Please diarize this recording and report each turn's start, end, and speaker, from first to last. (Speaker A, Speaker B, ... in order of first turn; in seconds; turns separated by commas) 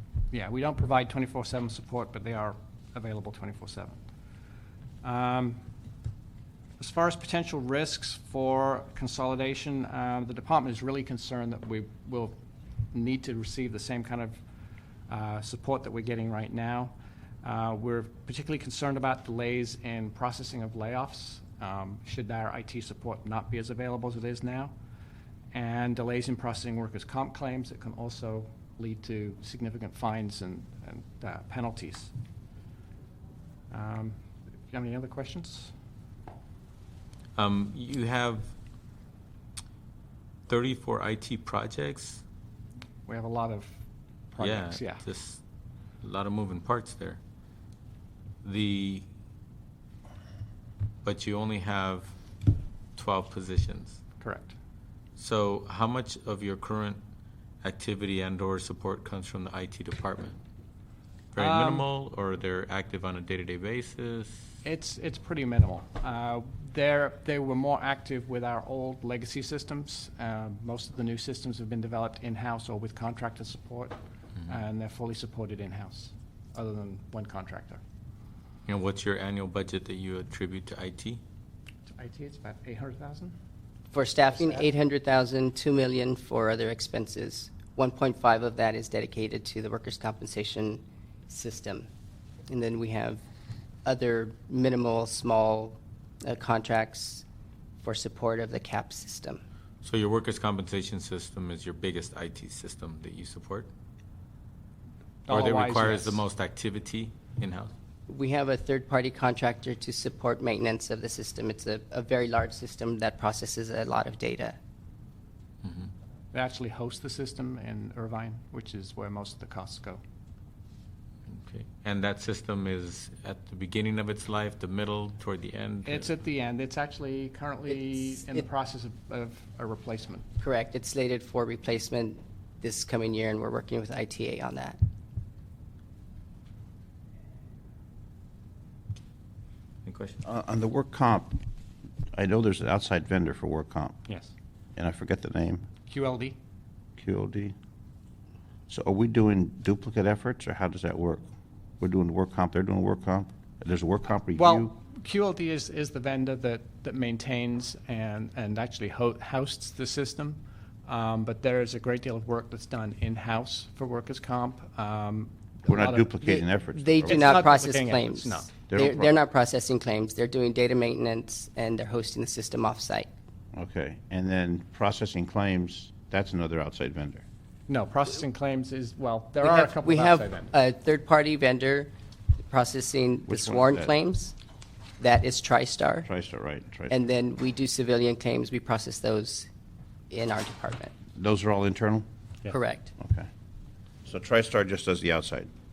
Speaker A: 0.3-4.0, Speaker A: 5.0-5.6, Speaker A: 6.8-12.4, Speaker A: 12.9-14.4, Speaker A: 15.1-24.7, Speaker A: 25.5-32.1, Speaker A: 33.7-34.2, Speaker A: 34.7-35.7, Speaker B: 37.4-38.5, Speaker B: 40.5-42.2, Speaker A: 43.1-43.8, Speaker A: 44.3-45.0, Speaker B: 44.4-45.4, Speaker B: 46.0-47.2, Speaker B: 48.4-49.0, Speaker B: 51.0-52.1, Speaker B: 53.0-54.0, Speaker A: 54.2-54.5, Speaker B: 55.2-57.0, Speaker B: 57.6-60.4, Speaker B: 61.3-64.5, Speaker A: 61.4-61.8, Speaker A: 64.6-77.8, Speaker B: 78.7-81.2, Speaker A: 81.9-83.3, Speaker C: 83.9-91.9, Speaker C: 92.5-93.2, Speaker C: 93.8-97.2, Speaker C: 97.8-99.4, Speaker B: 99.8-103.7, Speaker A: 105.3-106.2, Speaker B: 105.3-107.7, Speaker C: 108.1-114.6, Speaker B: 115.6-115.9, Speaker A: 116.3-120.0, Speaker B: 121.3-126.0, Speaker A: 125.8-130.3, Speaker C: 130.4-134.8, Speaker B: 139.8-140.2, Speaker D: 140.2-141.4, Speaker D: 142.1-144.0, Speaker A: 144.1-144.3, Speaker D: 144.8-145.7, Speaker A: 145.8-146.4, Speaker D: 147.0-147.5, Speaker D: 148.7-151.2, Speaker D: 151.8-154.7, Speaker A: 154.3-166.2, Speaker D: 165.7-167.5, Speaker C: 166.2-173.1, Speaker A: 167.1-168.6, Speaker D: 168.7-169.2, Speaker D: 173.5-177.2, Speaker A: 177.7-180.5, Speaker C: 179.4-181.9, Speaker C: 182.5-184.3, Speaker D: 183.3-183.9, Speaker C: 185.0-186.1, Speaker D: 186.1-186.9, Speaker C: 186.9-189.5, Speaker C: 190.1-190.9, Speaker D: 191.1-192.0, Speaker C: 192.5-192.9, Speaker D: 193.0-193.3, Speaker D: 194.1-195.5